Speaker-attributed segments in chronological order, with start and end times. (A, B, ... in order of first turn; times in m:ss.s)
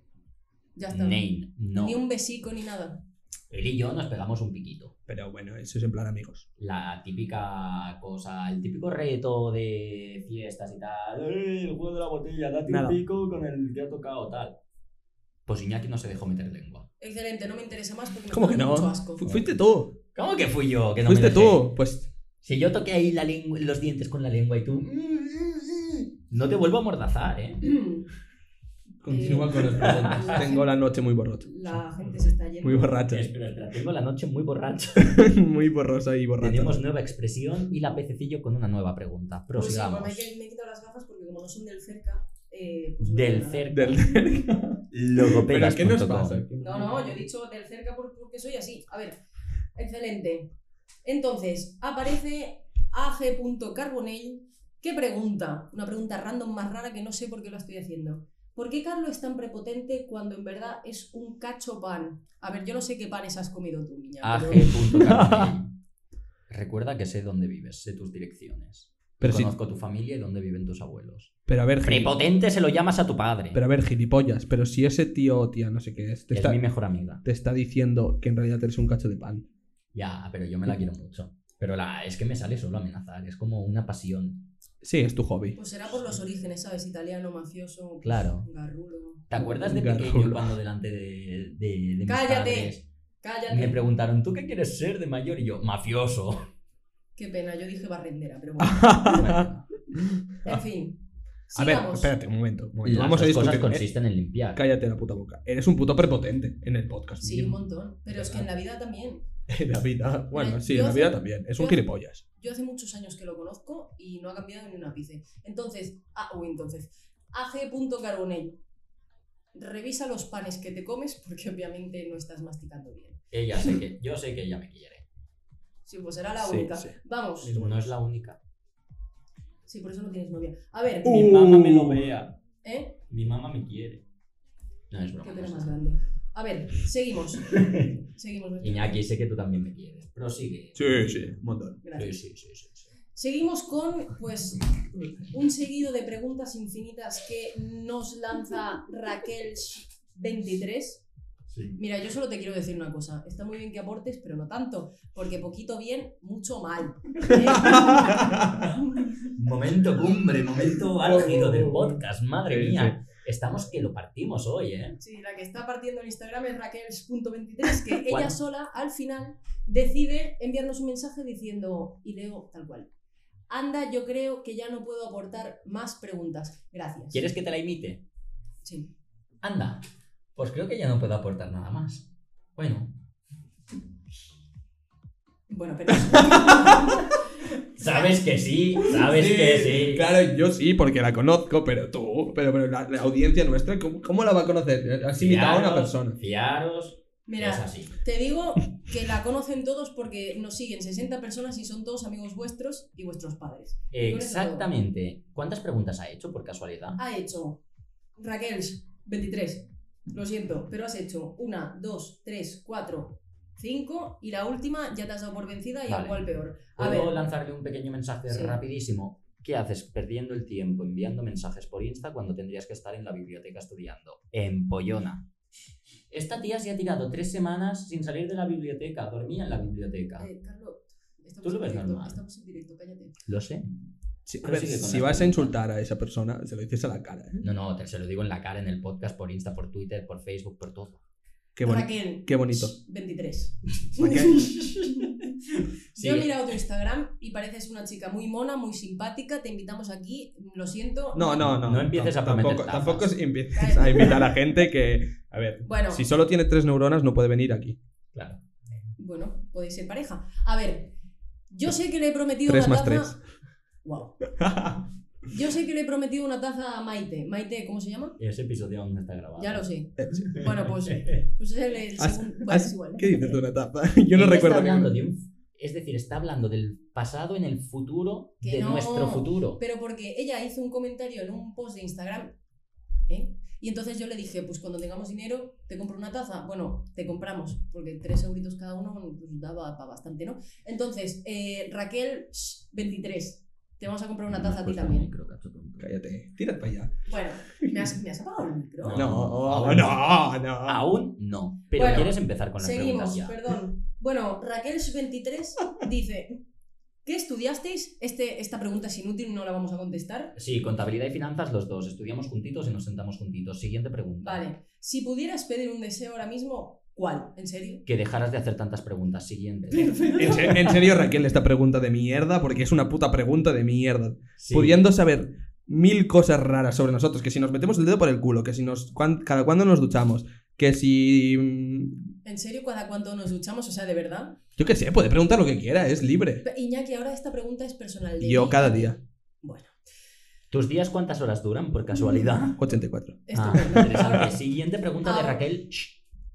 0:00.8-0:01.2 A
0:00.9-0:02.0 B
0:01.8-0:03.0 A
0:03.5-0:04.9 B
0:05.1-0:06.4 C
0:06.6-0:14.6 B
0:12.7-0:13.0 C
0:15.4-0:16.9 B
0:17.0-0:19.2 A
0:18.3-0:20.0 C
0:20.1-0:21.7 B
0:21.0-0:22.1 C
0:22.4-0:27.7 B
0:27.6-0:28.1 A
0:29.0-0:31.8 C
0:29.0-0:33.0 A
0:29.8-0:30.4 B
0:32.6-0:33.3 C
0:33.1-0:35.3 B
0:35.0-0:36.8 C
0:36.4-0:40.3 B
0:39.5-0:44.0 A
0:43.0-0:44.0 B
0:43.7-0:47.3 C
0:44.9-0:46.4 B
0:46.6-0:49.2 A
0:49.7-0:50.5 A
0:51.0-1:05.0 A
1:04.2-1:05.7 B
1:05.0-1:05.6 C
1:06.5-1:13.6 B
1:09.2-1:09.5 C
1:11.5-1:12.1 C
1:13.5-1:16.6 C
1:16.3-1:17.2 B
1:17.2-1:19.4 C
1:19.9-1:24.5 B
1:24.8-1:25.6 C
1:25.5-1:29.2 A
1:28.0-1:28.5 B
1:29.3-1:32.8 B
1:29.4-1:30.4 C
1:32.1-1:33.8 A
1:33.5-1:36.4 B
1:37.2-1:39.3 A
1:38.6-1:40.6 C
1:39.0-1:39.6 B
1:40.4-1:42.1 A
1:41.6-1:43.9 C
1:42.8-1:44.6 B
1:44.5-1:48.5 C
1:47.2-1:49.3 A
1:49.5-1:52.2 C
1:50.3-1:51.8 A
1:52.4-1:58.6 A
1:59.5-2:03.2 A
2:03.3-2:05.0 B
2:05.8-2:07.5 A
2:06.4-2:07.9 C
2:07.4-2:08.4 B
2:09.7-2:11.3 A
2:11.0-2:12.0 C
2:11.0-2:12.4 B
2:12.6-2:13.0 A
2:13.1-2:14.0 B
2:14.9-2:15.8 B
2:15.2-2:19.0 A
2:17.5-2:17.9 B
2:18.6-2:21.4 B
2:20.8-2:21.8 C
2:21.8-2:22.2 A
2:21.9-2:22.9 B
2:23.1-2:24.7 A
2:25.3-2:31.0 A
2:31.5-2:31.8 B
2:31.8-2:39.2 A
2:37.3-2:38.7 C
2:39.3-2:45.0 B
2:40.7-2:43.0 C
2:45.0-2:52.9 A
2:48.0-2:48.4 B
2:53.5-2:57.2 A
2:57.1-2:58.0 B
2:58.6-2:58.9 A
2:59.4-3:03.0 B
3:05.5-3:07.2 A
3:05.9-3:07.1 C
3:07.7-3:10.1 B
3:07.8-3:08.1 A
3:08.8-3:16.2 C
3:15.1-3:18.0 B
3:17.3-3:24.7 A
3:23.9-3:27.0 B
3:27.0-3:27.6 A
3:28.2-3:37.2 A
3:35.9-3:45.3 B
3:38.3-3:38.6 A
3:46.1-3:50.3 B
3:50.2-3:53.2 A
3:51.4-3:52.2 B
3:53.2-3:53.7 B
3:54.2-3:57.4 C
3:54.4-3:55.5 B
3:57.4-4:01.0 B
4:01.6-4:02.7 C
4:01.6-4:05.3 A
4:04.0-4:04.4 C
4:04.3-4:06.3 B
4:06.0-4:11.5 A
4:11.1-4:17.8 C
4:11.4-4:13.1 B
4:13.5-4:14.3 A
4:15.6-4:16.0 A
4:18.1-4:18.4 B
4:19.0-4:20.9 A
4:21.5-4:23.2 A
4:22.4-4:23.2 C
4:23.8-4:24.2 A
4:24.3-4:24.8 C
4:25.3-4:28.2 A
4:28.2-4:29.7 B
4:29.4-4:33.4 A
4:30.0-4:30.5 C
4:30.3-4:31.2 B
4:32.0-4:34.9 C
4:34.1-4:39.6 B
4:38.4-4:42.3 A
4:43.1-4:55.1 A
4:54.3-4:55.9 B
4:55.8-4:57.1 C
4:57.1-4:59.0 A
4:57.6-4:57.9 C
4:58.8-5:00.1 B
4:58.9-5:00.8 C
5:00.6-5:03.4 B
5:01.7-5:06.4 A
5:07.0-5:10.3 A
5:10.3-5:14.4 B
5:14.2-5:17.8 A
5:17.8-5:20.7 B
5:19.7-5:20.8 A
5:20.2-5:32.1 C
5:24.4-5:24.8 B
5:32.2-5:34.4 A
5:34.6-5:36.4 C
5:36.4-5:39.7 A
5:38.2-5:39.0 C
5:40.5-5:42.6 B
5:42.6-5:44.2 C
5:43.3-5:44.4 A
5:43.3-5:45.9 B
5:45.0-5:45.4 A